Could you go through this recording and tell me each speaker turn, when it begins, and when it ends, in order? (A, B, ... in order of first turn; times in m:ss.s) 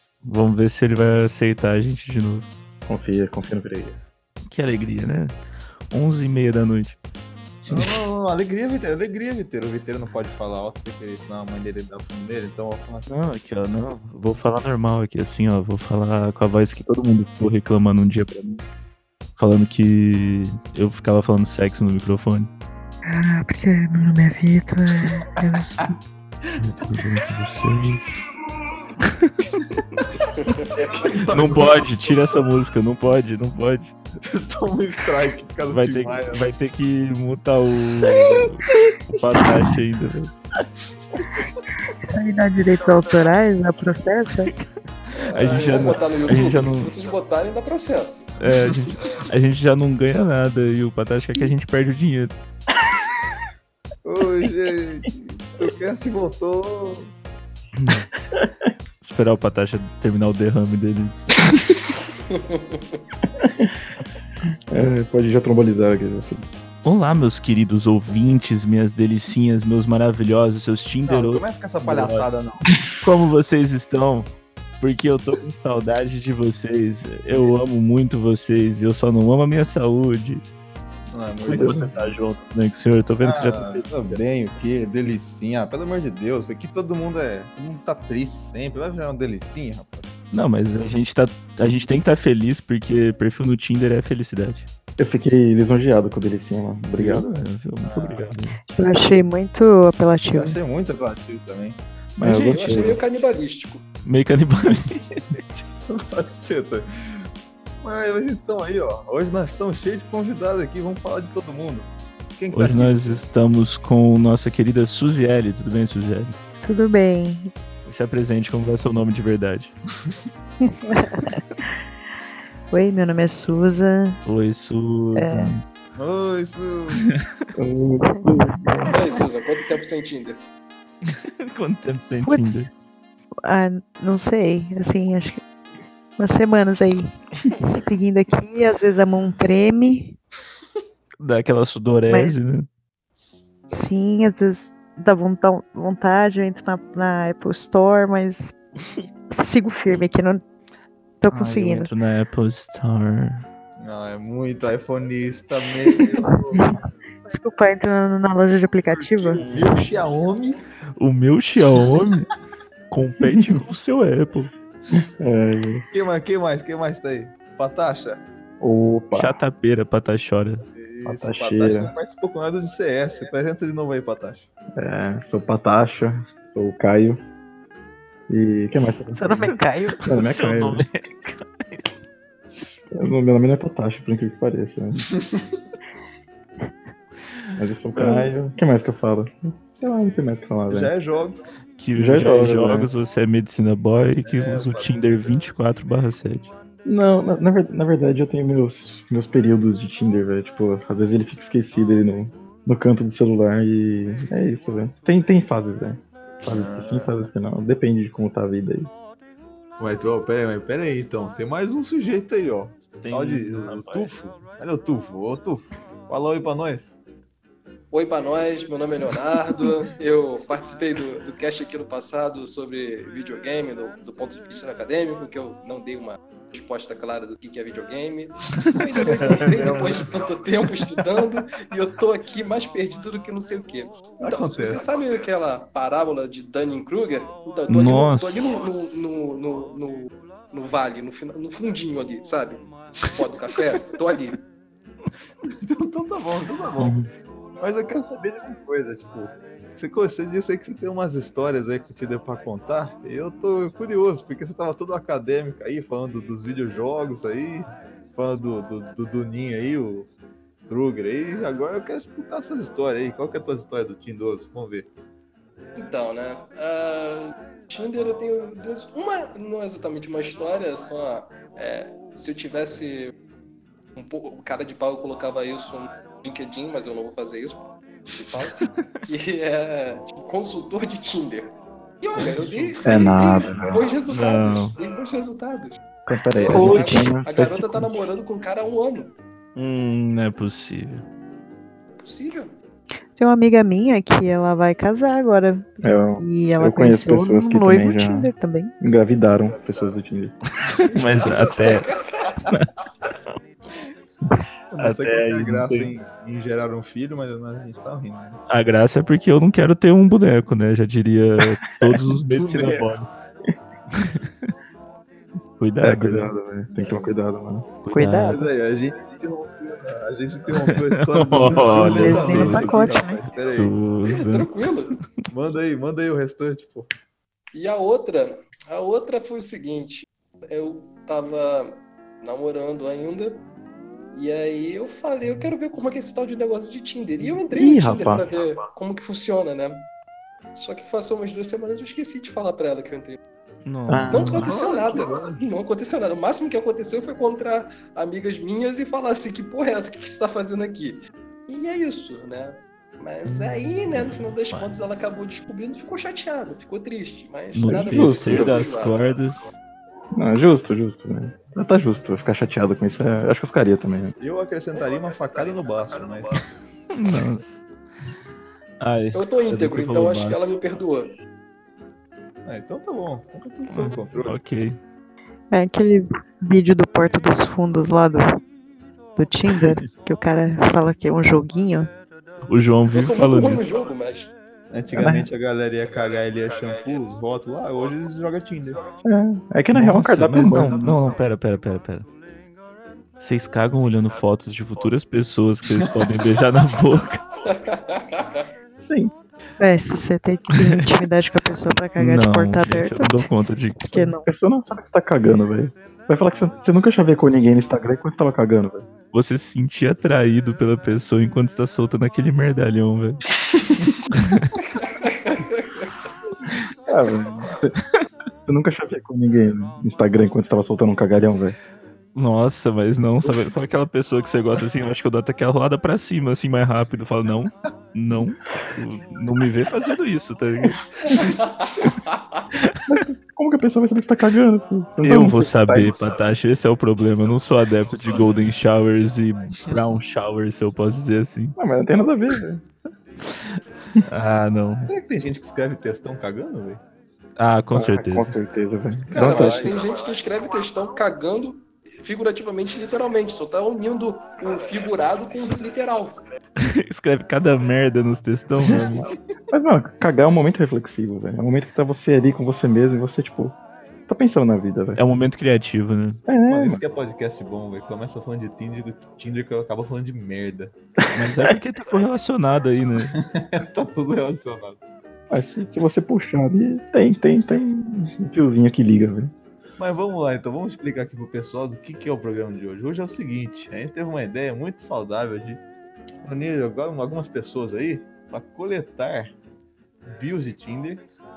0:00.2-0:02.5 A
0:02.9-0:04.0 B
0:04.5-0:05.4 A
0:05.9-0:07.0 A
0:07.7-0:08.0 B
0:07.7-0:13.1 C
0:13.1-0:18.6 A
0:19.4-0:22.5 A
0:23.0-0:25.9 D
0:26.6-0:28.2 A
0:29.0-0:29.6 A
0:29.6-0:31.9 C
0:30.5-0:30.8 E
0:31.3-0:33.9 A
0:34.2-0:36.5 C
0:35.7-0:40.3 A
0:41.8-0:44.5 D
0:45.2-0:48.4 E
0:45.2-0:46.9 A
0:45.3-0:46.4 C
0:48.4-0:52.3 A
0:54.0-0:57.1 C
0:57.8-0:58.1 A
0:58.3-0:58.7 B
0:59.0-1:01.2 A
1:02.3-1:03.0 E
1:03.3-1:03.8 B
1:04.7-1:06.4 B
1:06.8-1:12.3 A
1:11.1-1:12.7 C
1:13.0-1:20.4 A
1:21.1-1:22.2 C
1:21.4-1:24.2 A
1:21.4-1:21.8 B
1:23.2-1:30.1 C
1:30.3-1:34.7 A
1:35.0-1:37.3 B
1:37.0-1:38.6 A
1:37.8-1:38.3 C
1:38.7-1:40.6 D
1:40.3-1:41.8 C
1:42.2-1:43.0 B
1:42.2-1:43.0 A
1:42.5-1:43.8 E
1:44.0-1:45.6 A
1:45.9-1:47.2 C
1:47.8-1:53.2 C
1:52.5-1:56.4 A
1:56.6-1:57.5 D
1:57.9-1:59.7 A
2:00.6-2:01.6 D
2:02.7-2:04.2 D
2:04.2-2:05.6 A
2:05.2-2:05.6 D
2:06.0-2:07.0 C
2:07.0-2:07.4 A
2:07.6-2:09.1 B
2:08.1-2:08.9 D
2:08.9-2:10.4 E
2:11.0-2:12.7 A
2:12.2-2:12.7 D
2:13.4-2:15.4 D
2:16.2-2:20.2 D
2:21.2-2:22.7 A
2:22.1-2:22.4 D
2:23.7-2:28.6 D
2:29.3-2:30.4 D
2:31.2-2:31.9 D
2:31.3-2:33.5 A
2:33.8-2:36.6 C
2:36.5-2:39.5 D
2:39.0-2:40.6 C
2:39.4-2:40.0 A
2:41.0-2:42.3 A
2:42.9-2:44.5 A
2:44.9-2:45.8 B
2:45.9-2:48.2 C
2:48.6-2:49.4 B
2:49.1-2:50.6 A
2:50.7-2:54.5 C
2:51.0-2:51.9 B
2:54.8-2:57.2 B
2:58.3-2:59.5 B
2:59.1-3:00.1 D
3:00.0-3:00.8 B
3:00.0-3:01.9 A
3:02.9-3:05.0 B
3:07.6-3:10.9 B
3:08.0-3:08.4 A
3:10.7-3:11.4 C
3:11.8-3:16.5 A
3:12.0-3:12.9 B
3:14.2-3:15.4 C
3:16.8-3:28.9 B
3:26.5-3:27.2 C
3:29.8-3:37.0 C
3:33.0-3:34.1 A
3:37.9-4:04.4 E
3:49.0-3:50.2 C
3:54.2-3:54.8 C
3:57.7-3:58.5 A
4:05.5-4:07.0 C
4:06.8-4:07.1 B
4:07.6-4:20.1 C
4:20.7-4:24.9 C
4:25.8-4:33.1 E
4:34.0-4:37.6 E
4:38.2-4:45.8 E
4:42.2-4:42.8 C
4:42.8-4:43.8 B
4:43.4-4:44.8 A
4:46.1-4:48.0 B
4:46.4-4:49.1 E
4:46.5-4:47.2 A
4:49.6-4:51.0 A
4:52.0-4:52.5 E
4:53.2-4:58.7 D
4:55.8-5:00.4 B
5:00.6-5:01.8 C
5:00.9-5:01.9 A
5:01.6-5:02.2 E
5:02.5-5:03.2 A
5:04.7-5:08.4 C
5:04.8-5:06.0 A
5:08.5-5:13.2 A
5:12.3-5:12.9 C
5:13.9-5:14.5 A
5:15.6-5:16.3 A
5:15.8-5:17.7 B
5:16.7-5:17.1 C
5:17.8-5:18.4 A
5:17.9-5:18.5 D
5:18.3-5:23.8 C
5:20.6-5:25.2 A
5:21.7-5:23.2 D
5:24.1-5:25.0 E
5:25.3-5:26.9 C
5:27.5-5:33.4 E
5:34.1-5:39.8 E
5:37.5-5:38.2 B
5:40.6-5:43.2 E
5:43.6-5:44.5 A
5:43.9-5:44.5 B
5:44.1-5:59.0 E
5:44.2-5:45.4 C
5:53.4-5:54.8 A
5:57.5-5:59.5 A
5:57.8-5:58.6 B
6:00.1-6:04.2 B
6:04.2-6:06.4 C
6:06.9-6:07.6 A
6:08.8-6:10.5 A
6:09.1-6:11.1 E
6:12.5-6:14.3 C
6:13.7-6:14.8 A
6:15.5-6:18.3 D
6:19.2-6:21.9 D
6:22.5-6:23.6 A
6:22.9-6:24.3 E
6:24.7-6:28.9 C
6:24.9-6:25.3 B
6:29.0-6:31.1 B
6:29.7-6:32.1 A
6:33.2-6:37.2 A
6:37.5-6:38.5 E
6:38.8-6:39.1 B
6:39.6-6:43.3 D
6:40.5-6:40.9 A
6:42.0-6:44.0 A
6:43.8-6:44.3 D
6:44.1-6:48.8 B
6:49.1-6:53.2 A
6:54.1-6:54.6 A
6:54.8-6:55.9 E
6:56.9-6:57.8 B
6:58.5-7:01.6 B
7:02.1-7:11.2 A
7:12.1-7:12.4 E
7:12.5-7:13.0 A
7:12.9-7:16.0 B
7:15.0-7:21.6 A
7:21.6-7:22.6 B
7:23.2-7:24.9 A
7:24.9-7:26.8 C
7:27.4-7:28.4 A
7:27.7-7:29.8 B
7:29.1-7:29.8 C
7:29.1-7:36.2 E
7:36.6-7:39.0 A
7:38.7-7:45.0 B
7:45.0-7:46.3 A
7:46.3-7:46.8 B
7:46.5-7:50.7 C
7:51.0-7:51.6 B
7:51.1-7:53.2 A
7:53.2-7:54.8 C
7:55.3-7:59.3 B
7:59.8-8:05.6 C
8:06.2-8:09.3 C
8:10.1-8:11.0 C